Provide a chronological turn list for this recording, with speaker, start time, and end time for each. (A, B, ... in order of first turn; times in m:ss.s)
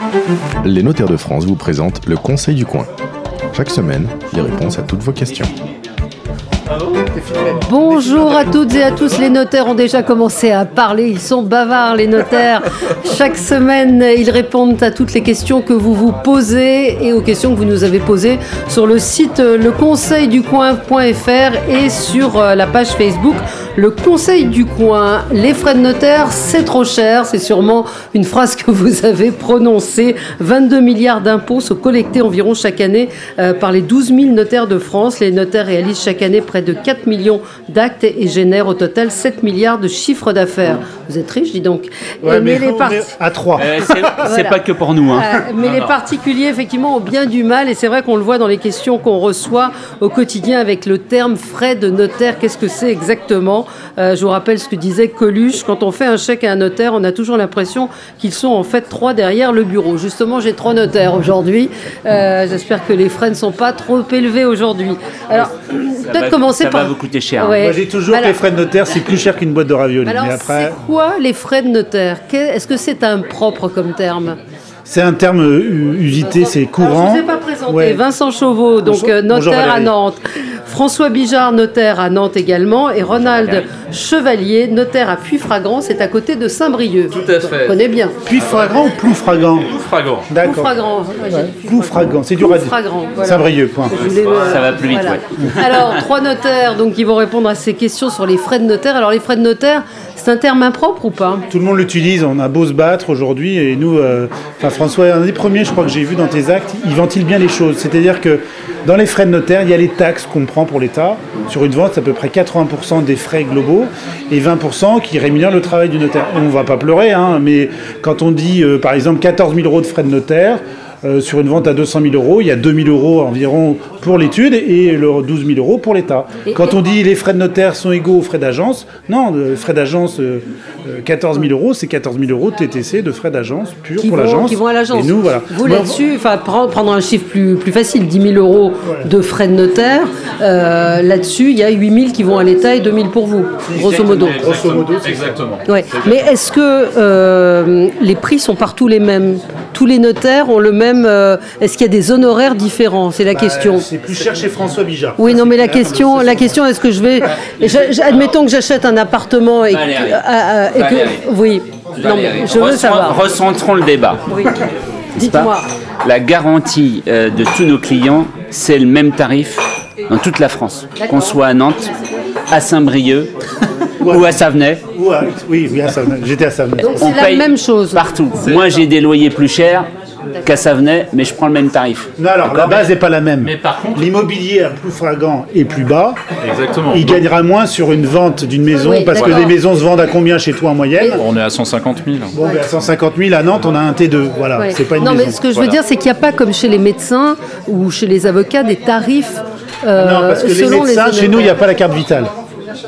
0:00.6-0:02.9 A
0:03.5-0:05.5 A
0:07.1-0:08.4 B
0:07.6-0:43.1 C
0:42.2-0:44.1 B
0:43.6-0:45.3 D
0:43.6-0:44.6 C
0:45.1-1:08.4 C
0:45.6-0:45.9 E
1:06.0-1:07.6 D
1:07.6-1:10.8 B
1:10.0-1:14.4 C
1:14.9-1:18.0 B
1:16.2-1:28.1 C
1:18.8-1:19.9 B
1:23.0-1:23.7 E
1:27.1-1:27.8 E
1:28.3-1:29.7 B
1:28.4-1:28.8 E
1:29.6-1:30.3 E
1:30.3-1:30.7 B
1:30.4-1:41.4 C
1:31.3-1:34.0 B
1:34.0-1:34.4 E
1:34.4-1:36.0 D
1:41.5-2:16.0 B
2:14.0-2:24.4 C
2:18.8-2:19.1 B
2:23.7-2:25.4 B
2:23.8-2:24.5 D
2:24.3-2:26.2 E
2:25.7-2:33.9 C
2:33.3-2:36.6 B
2:35.2-2:43.2 C
2:39.7-2:41.2 D
2:42.0-2:44.3 D
2:44.3-2:44.6 C
2:45.2-2:51.9 D
2:45.2-2:45.7 C
2:51.0-2:51.4 C
2:52.5-2:53.5 D
2:54.0-2:54.4 B
2:54.0-2:54.8 D
2:54.9-2:57.1 B
2:56.8-2:58.1 C
2:56.9-2:59.9 D
2:58.4-2:58.9 E
3:00.4-3:02.9 D
3:02.2-3:06.2 B
3:03.4-3:04.1 E
3:06.4-3:07.2 E
3:06.9-3:11.2 B
3:08.8-3:09.6 C
3:09.2-3:09.5 E
3:11.2-3:12.4 E
3:12.3-3:15.4 B
3:14.6-3:21.6 C
3:15.5-3:15.8 E
3:20.0-3:22.3 B